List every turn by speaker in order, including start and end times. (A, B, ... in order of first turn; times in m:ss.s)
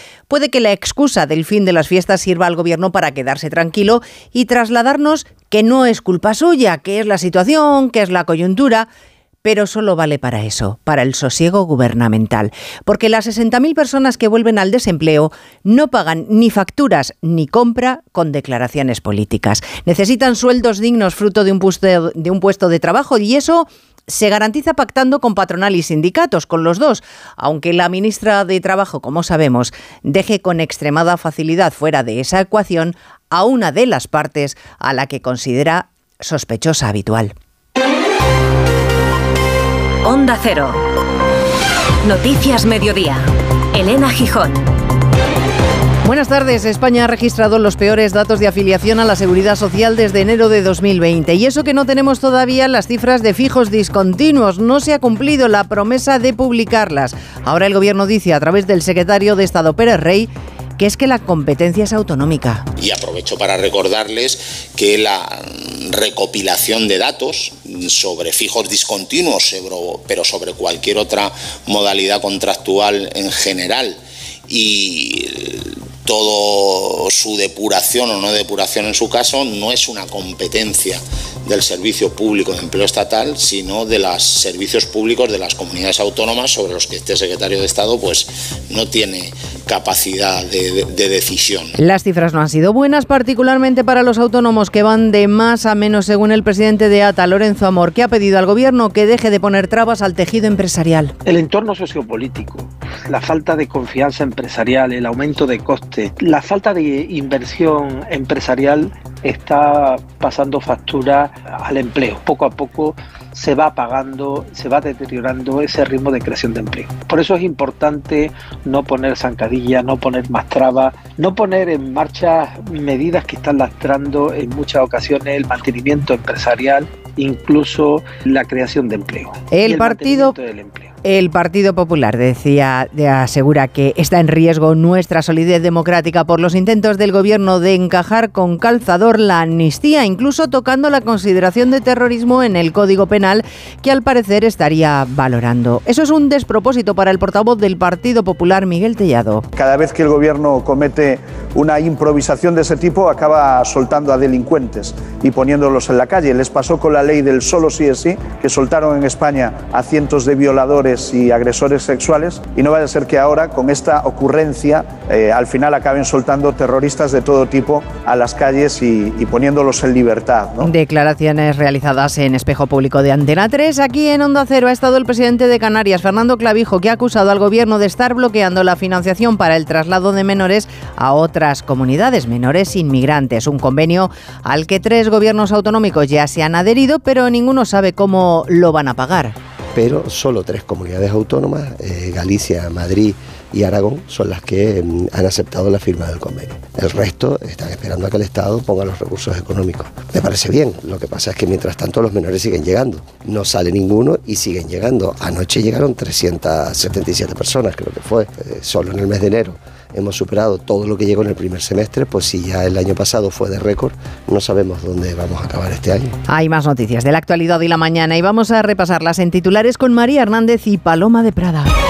0:00.3-0:08.9 A
0:09.4-0:37.3 A
0:40.0-0:40.8 B
0:42.0-0:44.7 B
0:46.0-1:02.6 A
1:02.8-1:31.7 C
1:31.8-1:41.1 A
1:41.2-2:10.9 D
2:09.5-2:10.4 A
2:11.0-2:29.4 A
2:29.6-2:50.7 E
2:50.6-3:09.3 A
3:09.7-3:36.1 F
3:36.3-3:41.7 A